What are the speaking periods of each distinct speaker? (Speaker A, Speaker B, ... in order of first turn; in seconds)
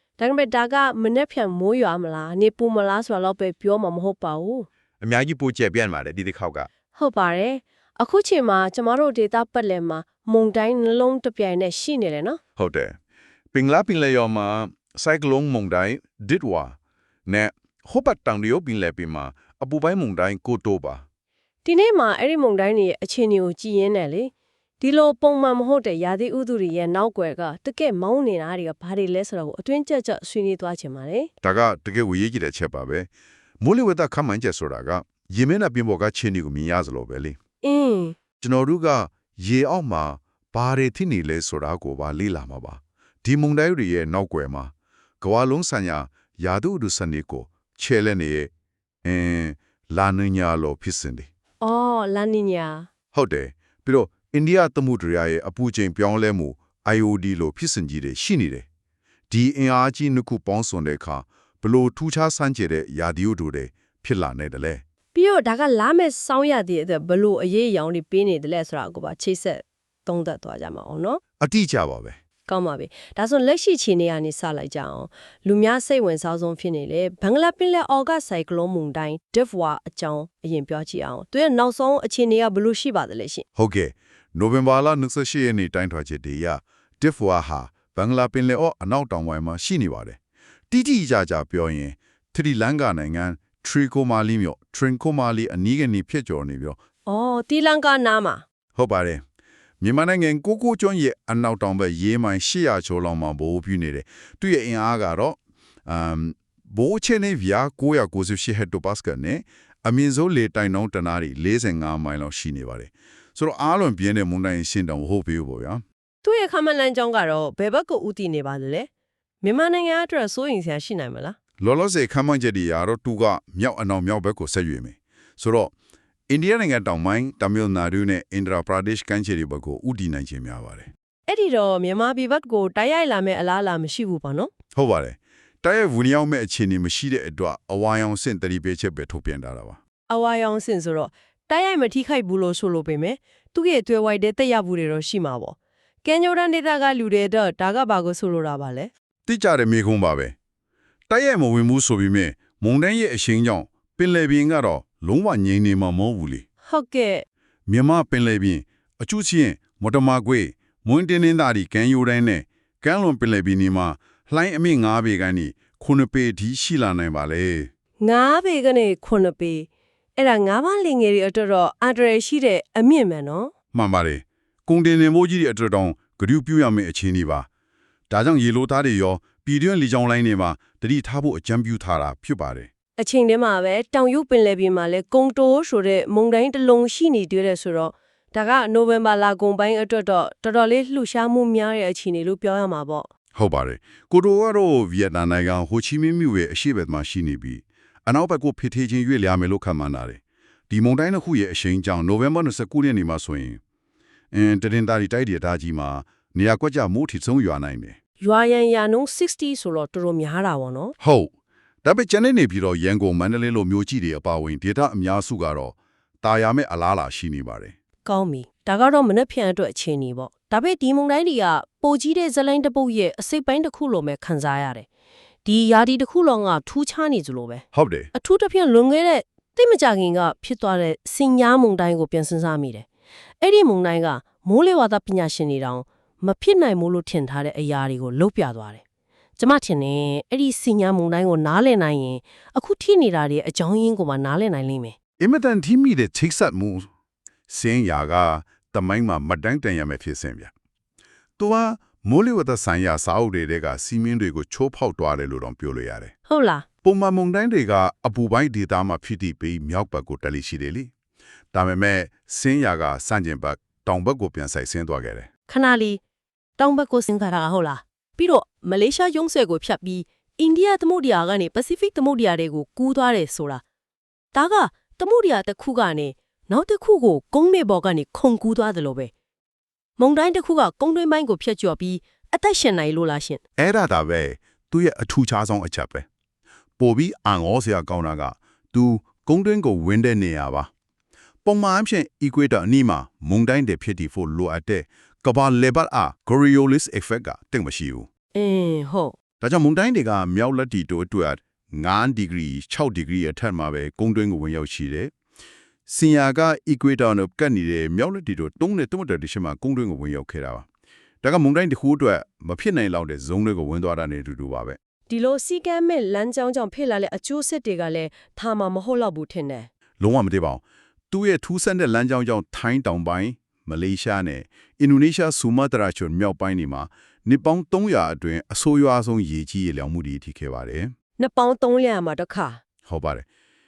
Speaker A: 0.2-4.7, 7.0-12.4, 21.6-31.3, 37.6-38.2, 51.6-52.9, 65.2-71.2, 72.5-83.5, 97.1-98.4, 116.2-118.9, 119.4-121.4, 131.3-134.5, 140.1-148.9, 156.7-157.2, 168.0-173.5, 183.0-193.1, 208.2-210.9, 218.1-224.9, 225.4-227.6, 228.2-232.9, 233.4-238.8, 239.4-244.9, 256.3-256.6, 265.5-266.0, 266.6-273.6, 274.3-279.1, 280.0-283.4, 298.4-299.1, 315.1-319.7, 331.2-332.6
Speaker B: 5.0-6.7, 12.6-13.0, 13.5-16.8, 17.3-21.0, 31.4-33.1, 33.6-37.4, 38.4-48.5, 49.0-51.3, 53.1-58.6, 59.3-64.8, 71.4-72.2, 83.6-90.2, 90.7-96.8, 98.8-99.2, 99.8-115.8, 121.6-125.7, 126.3-130.9, 134.8-139.8, 149.3-150.3, 151.1-156.4, 157.7-167.7, 173.7-177.5, 178.1-182.7, 193.3-203.6, 204.3-208.0, 211.0-211.3, 211.8-217.7, 227.7-228.1, 245.2-246.9, 247.5-250.5, 251.4-256.1, 256.8-260.9, 261.5-265.3, 283.6-286.1, 286.8-290.7, 291.4-298.1, 299.4-305.1, 305.9-310.7, 311.2-314.8, 320.0-330.9, 332.9-333.3